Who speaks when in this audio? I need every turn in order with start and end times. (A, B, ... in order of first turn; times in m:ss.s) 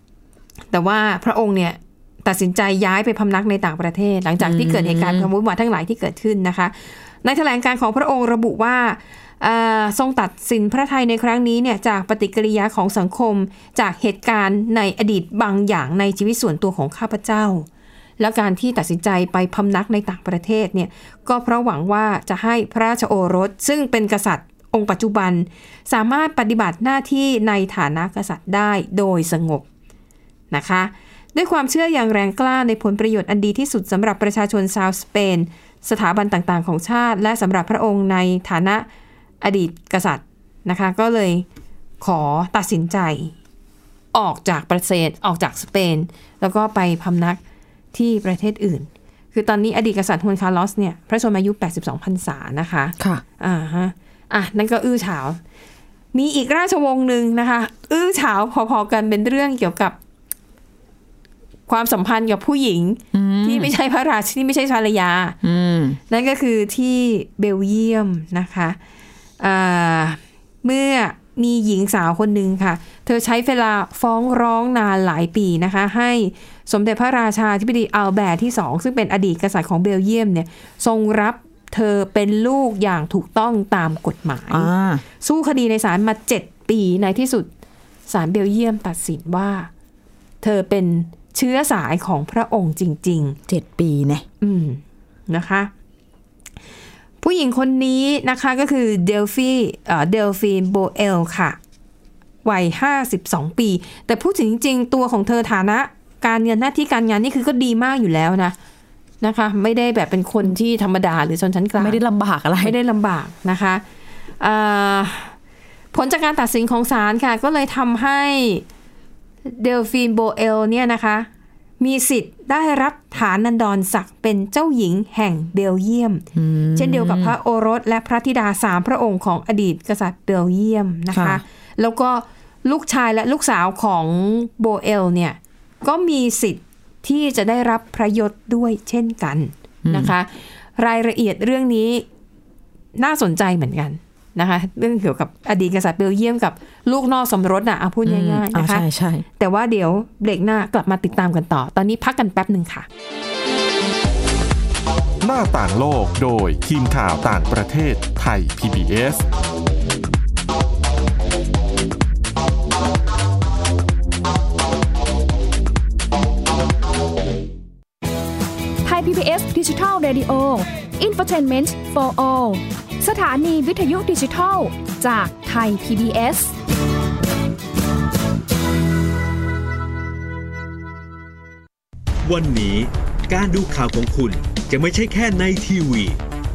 0:00.7-0:17.6 A
0:04.4-0:05.3 B
0:18.2-0:29.6 A
0:30.5-0:38.8 A
0:39.4-0:41.4 A
0:42.0-0:43.3 A
0:44.1-0:47.4 A
0:47.9-0:55.4 A
0:53.0-0:53.2 B
0:56.1-1:00.0 A
1:01.7-1:05.4 A
1:03.1-1:03.7 B
1:05.4-1:06.0 B
1:06.1-1:08.8 A
1:09.4-1:24.7 A
1:24.5-1:25.0 B
1:25.2-1:27.5 A
1:28.1-1:29.7 A
1:30.4-1:33.4 A
1:33.5-1:34.2 B
1:34.4-1:35.7 A
1:37.2-1:41.6 A
1:42.4-1:48.6 A
1:49.2-1:52.0 A
1:51.8-1:52.8 B
1:52.6-1:53.8 A
1:54.4-1:55.3 A
1:55.9-1:58.6 A
1:59.5-2:01.3 A
2:01.8-2:06.2 A
2:06.3-2:07.3 B
2:06.8-2:22.0 A
2:11.1-2:11.4 B
2:19.8-2:20.1 B
2:23.0-2:28.8 A
2:28.0-2:29.2 B
2:29.4-2:32.9 A
2:35.2-2:39.2 C
2:48.8-2:56.5 D
3:02.2-3:06.2 E